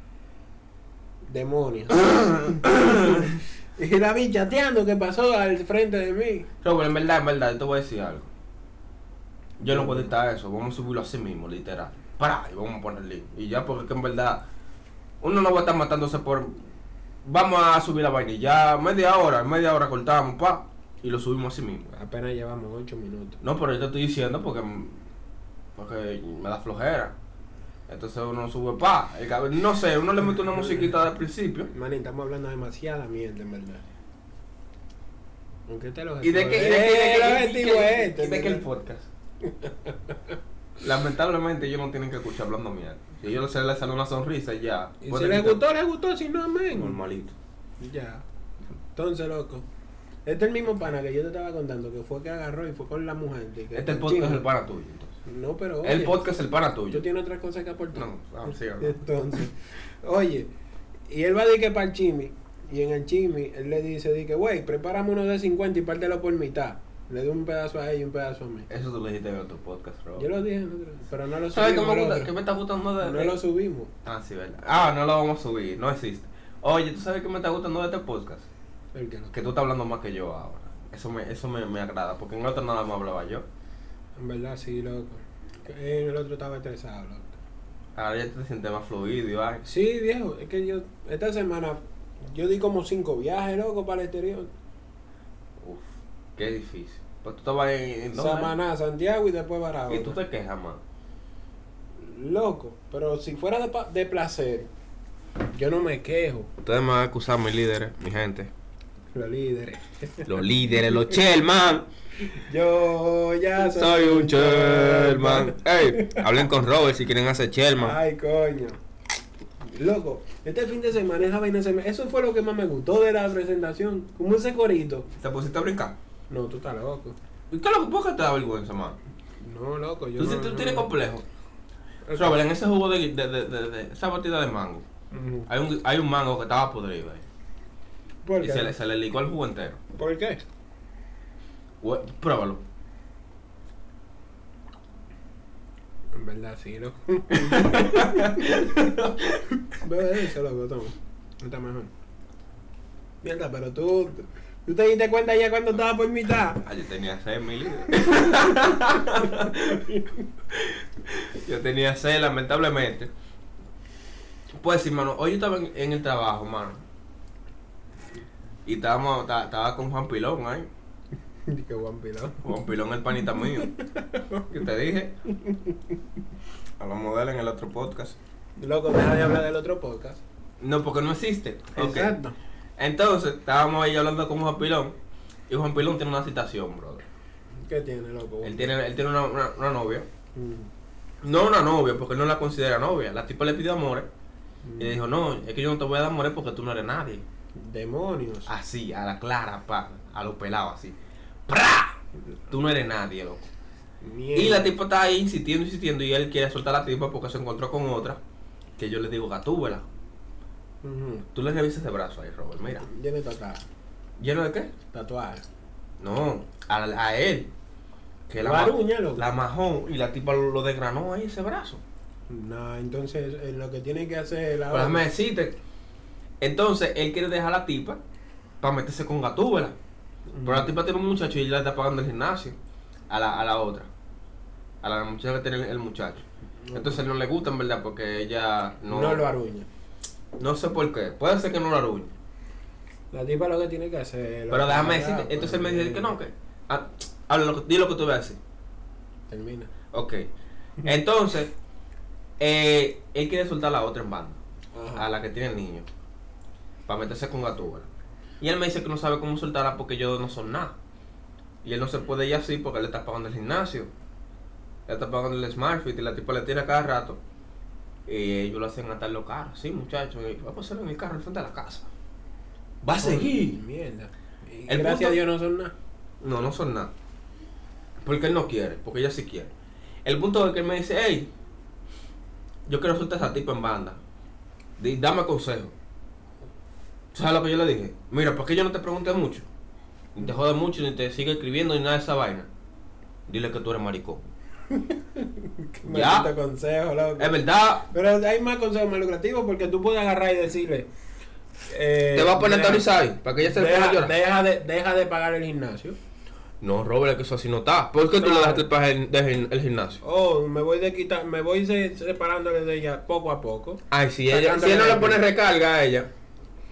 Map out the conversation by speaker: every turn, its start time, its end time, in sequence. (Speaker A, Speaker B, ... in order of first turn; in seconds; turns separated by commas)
Speaker A: 1.2-6.5, Speaker B: 2.1-3.2, Speaker B: 6.6-8.3, Speaker B: 9.6-14.4, Speaker A: 9.7-10.1, Speaker B: 15.2-16.6, Speaker B: 17.2-21.9, Speaker A: 21.9-23.4, Speaker B: 23.4-25.0, Speaker B: 25.8-27.1, Speaker B: 27.9-31.7, Speaker A: 31.7-33.8, Speaker A: 35.7-38.6, Speaker B: 36.2-39.1, Speaker A: 39.5-40.1, Speaker B: 40.8-45.6, Speaker A: 45.0-47.0, Speaker B: 46.7-47.3, Speaker A: 47.8-48.2, Speaker A: 48.9-49.6, Speaker A: 50.2-54.4, Speaker B: 53.7-55.1, Speaker A: 55.2-56.2, Speaker B: 55.8-57.0, Speaker A: 56.9-58.1, Speaker B: 57.9-59.0, Speaker A: 58.8-60.5, Speaker A: 61.1-68.7, Speaker B: 68.7-70.3, Speaker A: 70.2-72.3, Speaker B: 71.5-73.4, Speaker A: 73.0-73.9, Speaker B: 74.0-78.5, Speaker A: 78.9-79.3, Speaker B: 79.3-83.5, Speaker A: 84.2-87.4, Speaker B: 87.9-89.6, Speaker A: 89.6-94.5, Speaker B: 95.6-98.5, Speaker A: 98.1-100.2, Speaker B: 99.9-100.8, Speaker A: 102.0-104.7, Speaker A: 105.5-106.5, Speaker B: 106.6-108.5, Speaker A: 109.1-110.4, Speaker B: 110.2-111.9, Speaker A: 112.3-116.3, Speaker B: 113.6-118.0, Speaker A: 117.8-118.8, Speaker A: 119.6-125.1, Speaker B: 125.2-126.0, Speaker A: 126.3-127.2, Speaker B: 127.5-129.0, Speaker A: 129.4-130.9, Speaker B: 130.2-131.2, Speaker A: 132.1-132.4, Speaker B: 132.1-134.8, Speaker A: 135.1-135.5, Speaker B: 135.5-137.2, Speaker A: 138.2-138.7, Speaker B: 138.4-139.8, Speaker A: 139.9-140.4, Speaker B: 141.8-142.6, Speaker A: 146.1-148.7, Speaker B: 147.3-149.4, Speaker A: 149.7-151.9, Speaker A: 153.2-156.6, Speaker B: 156.6-159.9, Speaker A: 158.0-158.5, Speaker A: 159.2-160.1, Speaker B: 160.5-163.1, Speaker B: 164.5-166.8, Speaker B: 168.7-170.7, Speaker A: 171.5-172.4, Speaker B: 172.4-173.7, Speaker A: 173.6-174.4, Speaker B: 174.5-175.2, Speaker A: 175.4-175.7, Speaker B: 176.8-178.2, Speaker A: 178.6-180.2, Speaker B: 180.6-182.2, Speaker A: 181.7-182.3, Speaker B: 182.8-184.9, Speaker B: 185.5-187.1, Speaker A: 187.6-188.7, Speaker B: 188.4-190.1, Speaker A: 190.3-190.7, Speaker B: 191.2-194.1, Speaker A: 194.6-195.0, Speaker B: 194.8-197.2, Speaker A: 197.6-198.5, Speaker B: 198.4-202.0, Speaker B: 202.5-203.5, Speaker A: 204.0-204.7, Speaker B: 204.3-208.2, Speaker B: 208.8-209.9, Speaker A: 210.8-211.2, Speaker B: 211.3-212.9, Speaker A: 212.8-213.6, Speaker B: 214.2-214.7, Speaker A: 214.9-215.4, Speaker B: 216.0-217.5, Speaker B: 218.3-221.8, Speaker A: 218.4-219.2, Speaker A: 222.3-225.1, Speaker B: 224.7-225.6, Speaker B: 226.4-228.0, Speaker B: 228.6-229.8, Speaker A: 230.3-230.7, Speaker B: 230.4-232.6, Speaker B: 233.1-233.9, Speaker B: 234.8-239.2, Speaker A: 236.6-237.0, Speaker A: 238.9-239.7, Speaker B: 240.4-242.1, Speaker A: 243.1-246.1, Speaker B: 244.5-248.4, Speaker A: 249.3-249.7, Speaker B: 249.9-250.3, Speaker B: 250.8-251.5, Speaker B: 252.4-254.4, Speaker A: 254.7-255.1, Speaker B: 254.9-255.9, Speaker B: 256.9-257.9, Speaker B: 258.4-260.8, Speaker B: 261.6-263.9, Speaker B: 264.9-267.2, Speaker B: 268.1-271.9, Speaker B: 272.8-273.6, Speaker A: 273.0-275.7, Speaker B: 274.7-275.2, Speaker B: 276.2-276.9, Speaker B: 278.0-279.5, Speaker B: 280.0-281.3, Speaker B: 282.6-284.0, Speaker B: 284.8-285.7, Speaker B: 287.1-289.5, Speaker B: 290.1-292.5, Speaker B: 293.3-294.3, Speaker A: 294.7-300.9, Speaker B: 295.8-296.3, Speaker B: 297.2-297.9, Speaker A: 301.7-302.8, Speaker B: 302.1-304.1, Speaker A: 303.4-306.0, Speaker B: 306.6-310.0, Speaker A: 308.1-308.6, Speaker A: 310.0-315.2, Speaker B: 313.9-316.1